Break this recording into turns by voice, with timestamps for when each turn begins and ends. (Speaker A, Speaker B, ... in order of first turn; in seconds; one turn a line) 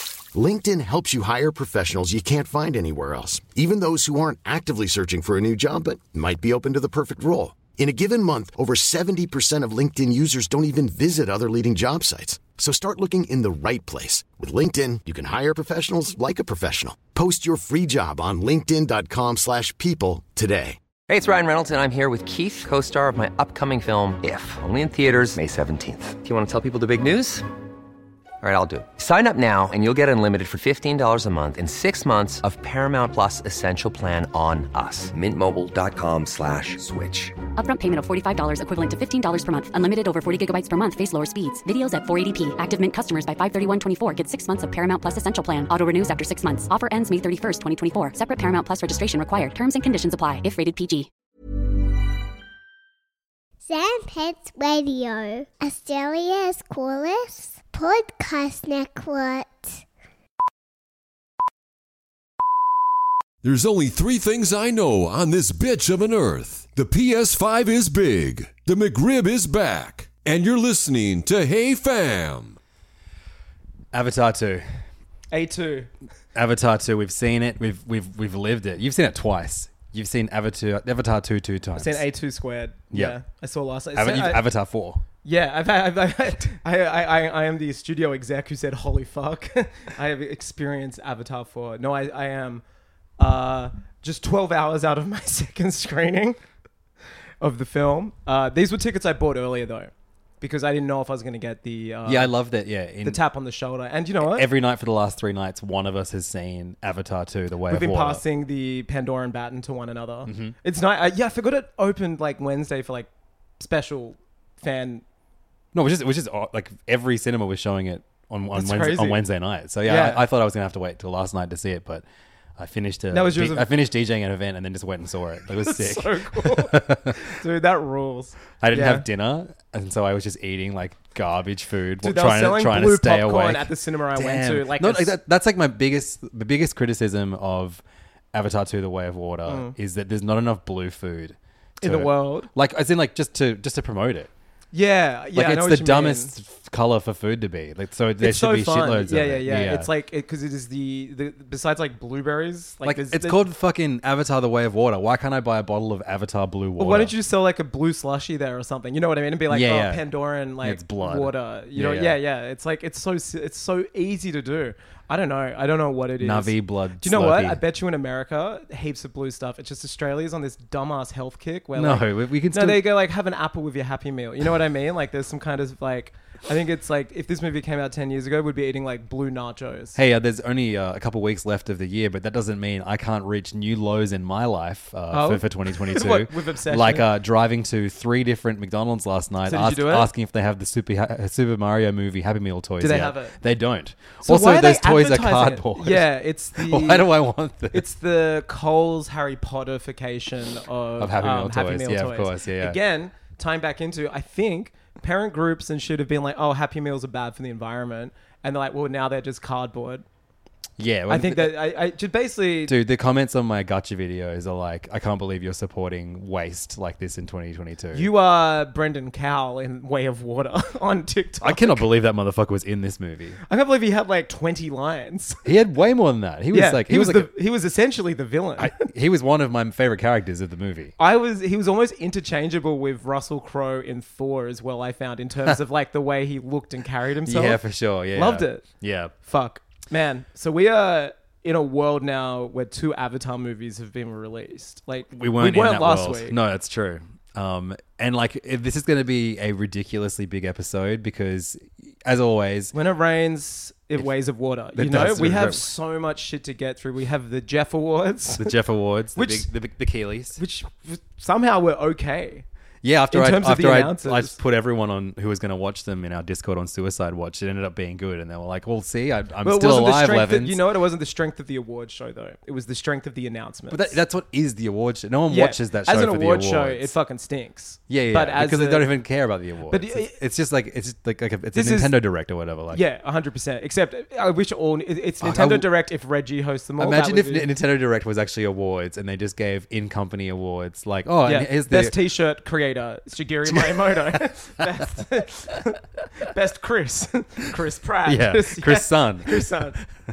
Speaker A: 0.3-20.8
Speaker B: 21.1-27.5
Speaker B: 28.4-37.4
Speaker C: 37.6-51.1
Speaker D: 53.6-59.8
Speaker E: 63.4-72.6
Speaker F: 73.9-74.8
Speaker G: 75.3-75.9
Speaker F: 76.3-82.0
Speaker G: 81.7-84.4
Speaker F: 82.9-83.2
Speaker F: 83.9-85.0
Speaker G: 85.2-92.6
Speaker G: 93.2-96.4
Speaker G: 97.4-102.3
Speaker F: 102.0-103.2
Speaker G: 103.0-104.5
Speaker F: 104.2-108.2
Speaker G: 107.7-113.1
Speaker F: 110.2-110.5
Speaker G: 113.6-115.0
Speaker F: 115.7-122.0
Speaker G: 118.5-119.2
Speaker G: 119.8-120.2
Speaker F: 122.6-127.3
Speaker G: 123.1-123.7
Speaker G: 125.6-129.0
Speaker F: 128.6-144.3
Speaker G: 132.0-135.1
Speaker G: 139.4-139.7
Speaker G: 141.8-142.5
Speaker G: 144.7-146.3
Speaker F: 145.3-149.9
Speaker G: 148.2-153.4
Speaker F: 152.8-157.1
Speaker G: 156.8-180.0
Speaker F: 159.5-160.0
Speaker F: 160.6-162.2
Speaker F: 166.2-167.6
Speaker F: 171.8-172.8
Speaker F: 179.9-197.8
Speaker G: 185.1-187.1
Speaker G: 189.4-190.1
Speaker G: 192.8-193.3
Speaker G: 194.2-197.1
Speaker G: 197.7-210.0
Speaker F: 201.0-202.8
Speaker F: 210.8-211.6
Speaker G: 211.1-212.8
Speaker F: 212.7-218.1
Speaker G: 217.9-221.8
Speaker F: 221.4-223.4
Speaker G: 223.5-225.4
Speaker F: 225.4-227.3
Speaker G: 226.5-228.8
Speaker F: 228.6-230.9
Speaker G: 231.0-237.6
Speaker F: 237.2-239.1
Speaker G: 238.1-238.6
Speaker G: 239.2-246.4
Speaker F: 245.1-252.7
Speaker G: 252.7-258.6
Speaker F: 254.7-255.7
Speaker F: 258.4-260.4
Speaker G: 259.1-259.5
Speaker G: 260.4-262.4
Speaker F: 262.8-270.6
Speaker G: 263.1-264.4
Speaker G: 269.4-274.0
Speaker F: 273.7-276.9
Speaker G: 275.3-278.9
Speaker F: 277.9-282.8
Speaker G: 279.7-280.2
Speaker G: 281.5-281.9
Speaker G: 282.7-287.5
Speaker F: 285.2-285.7
Speaker F: 286.8-291.9
Speaker G: 291.2-299.8
Speaker F: 293.5-294.8
Speaker F: 298.0-299.9